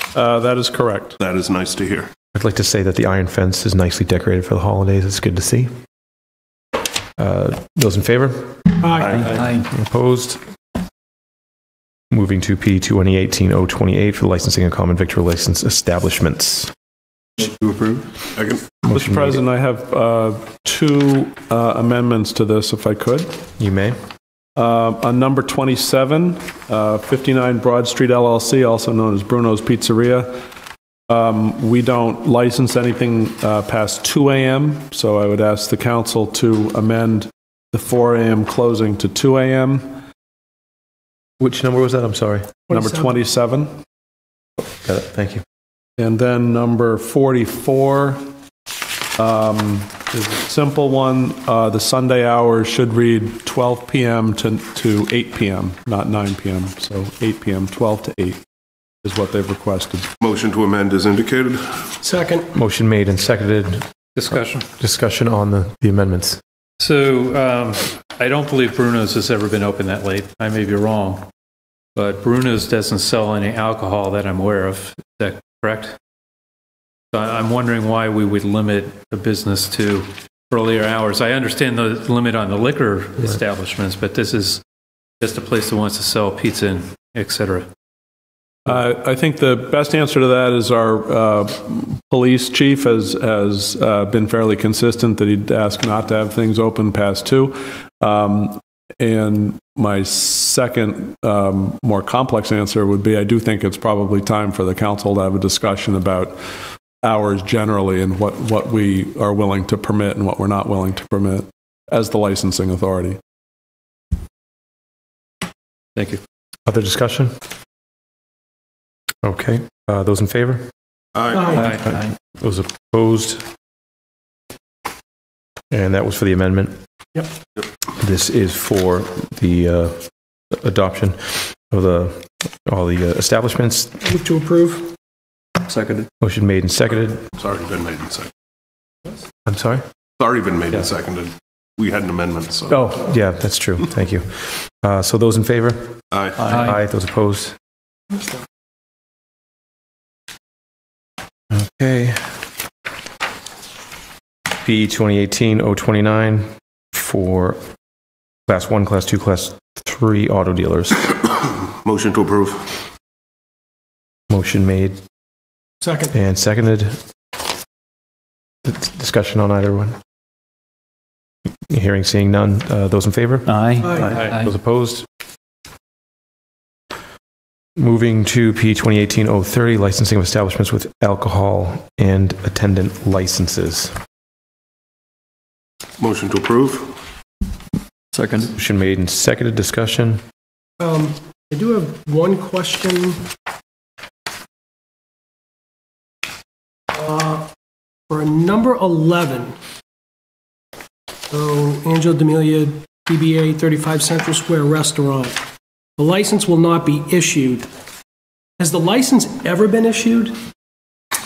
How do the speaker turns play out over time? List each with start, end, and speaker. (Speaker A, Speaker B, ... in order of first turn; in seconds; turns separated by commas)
Speaker A: 0.1-1.2, Speaker B: 1.2-2.1, Speaker C: 2.3-5.7, Speaker C: 7.2-8.6, Speaker D: 8.8-9.3, Speaker B: 9.1-9.4, Speaker C: 9.3-10.4, Speaker C: 12.1-16.7, Speaker B: 18.4-18.6, Speaker C: 18.8-19.4, Speaker A: 18.9-23.3, Speaker C: 23.6-23.9, Speaker A: 24.6-30.4, Speaker A: 31.1-40.0, Speaker C: 41.4-42.5, Speaker D: 42.7-43.1, Speaker A: 42.7-43.7, Speaker C: 44.7-45.4, Speaker A: 46.0-48.2, Speaker A: 49.2-58.4, Speaker A: 59.0-60.1, Speaker B: 60.2-61.8, Speaker D: 62.0-62.5, Speaker C: 62.5-63.8, Speaker E: 64.1-64.7, Speaker C: 64.7-66.4, Speaker E: 66.8-71.3, Speaker E: 71.9-76.0, Speaker E: 77.1-84.6, Speaker E: 85.2-87.7, Speaker A: 88.7-106.4, Speaker A: 107.0-113.2, Speaker E: 116.0-116.2, Speaker C: 116.7-117.3, Speaker C: 119.2-120.7, Speaker B: 121.2-121.4, Speaker D: 121.3-121.6, Speaker E: 121.5-121.8, Speaker C: 121.8-123.4, Speaker C: 125.7-126.8, Speaker C: 128.0-130.0, Speaker C: 130.5-134.0, Speaker D: 134.0-134.9, Speaker C: 136.2-137.2, Speaker B: 137.4-138.3, Speaker C: 139.5-139.8, Speaker B: 140.2-142.9, Speaker C: 142.9-147.5, Speaker B: 146.1-146.4, Speaker C: 151.5-152.4, Speaker C: 154.6-157.6, Speaker C: 158.5-161.1, Speaker B: 161.8-162.7, Speaker C: 164.3-165.0, Speaker D: 165.8-166.1, Speaker C: 166.1-167.0, Speaker C: 168.6-169.9, Speaker C: 171.7-173.5, Speaker D: 173.8-174.2, Speaker C: 174.4-175.1, Speaker C: 177.8-183.9, Speaker B: 186.0-186.9, Speaker C: 188.5-190.2, Speaker D: 190.8-193.3, Speaker D: 196.9-197.5, Speaker D: 198.1-199.5, Speaker D: 201.3-205.4, Speaker D: 206.0-207.7, Speaker D: 208.6-210.3